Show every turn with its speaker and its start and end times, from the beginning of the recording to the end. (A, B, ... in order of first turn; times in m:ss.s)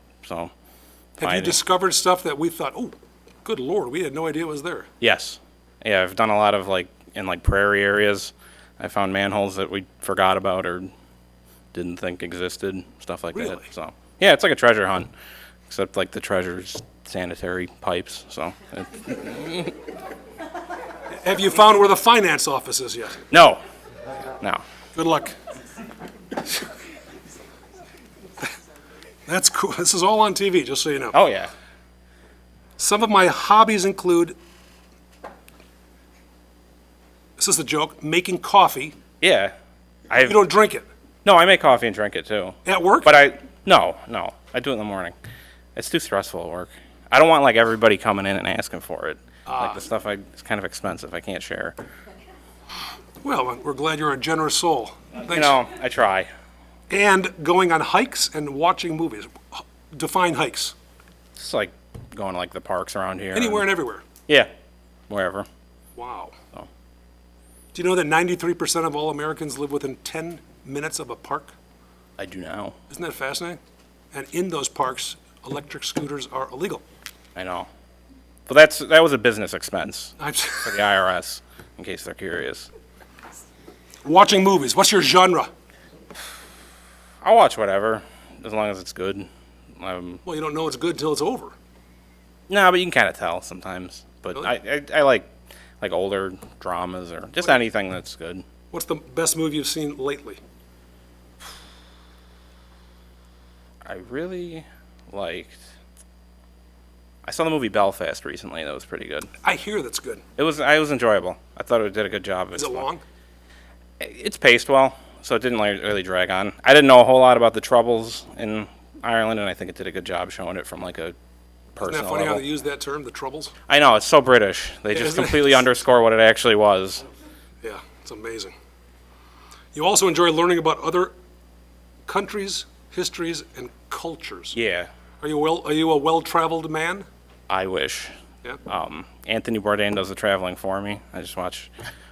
0:00.2-0:00.5 A
0:01.2-0:01.6 A
0:01.2-0:04.9 B
0:05.0-0:10.9 A
0:11.7-0:15.1 A
0:13.3-0:13.7 B
0:15.7-0:19.8 A
0:21.1-0:23.2 B
0:23.3-0:23.6 A
0:25.0-0:25.4 B
0:29.3-0:31.2 B
0:31.1-0:31.5 A
0:32.8-0:34.4 B
0:37.4-0:39.0 B
0:39.2-0:39.5 A
0:40.1-0:40.4 A
0:40.2-0:40.9 B
0:41.2-0:45.2 A
0:42.6-0:43.2 B
0:45.8-0:51.8 A
0:49.5-0:49.8 B
0:53.2-0:55.6 B
0:55.2-0:56.3 A
0:56.9-1:00.7 B
1:01.4-1:03.7 A
1:03.3-1:04.1 B
1:05.1-1:05.5 A
1:06.0-1:06.4 B
1:07.7-1:11.5 B
1:12.2-1:12.8 A
1:12.9-1:13.6 B
1:14.1-1:16.8 B
1:17.4-1:17.7 A
1:18.5-1:22.7 A
1:20.2-1:20.8 B
1:24.0-1:25.5 B
1:27.2-1:29.3 A
1:29.8-1:30.2 A
1:30.2-1:31.5 B
1:32.5-1:38.4 A
1:38.7-1:40.4 B
1:43.8-1:45.6 A
1:47.2-1:49.3 A
1:49.4-1:50.2 B
1:50.4-1:52.9 A
1:52.6-1:53.0 B
1:54.0-2:01.2 A
2:01.8-2:02.4 A
2:01.8-2:03.5 B
2:03.7-2:07.0 A
2:04.9-2:05.6 B
2:07.6-2:08.5 B
2:09.7-2:11.1 B
2:12.1-2:14.6 B
2:14.6-2:14.9 A
2:15.2-2:17.1 B
2:17.5-2:18.1 A
2:18.7-2:21.7 A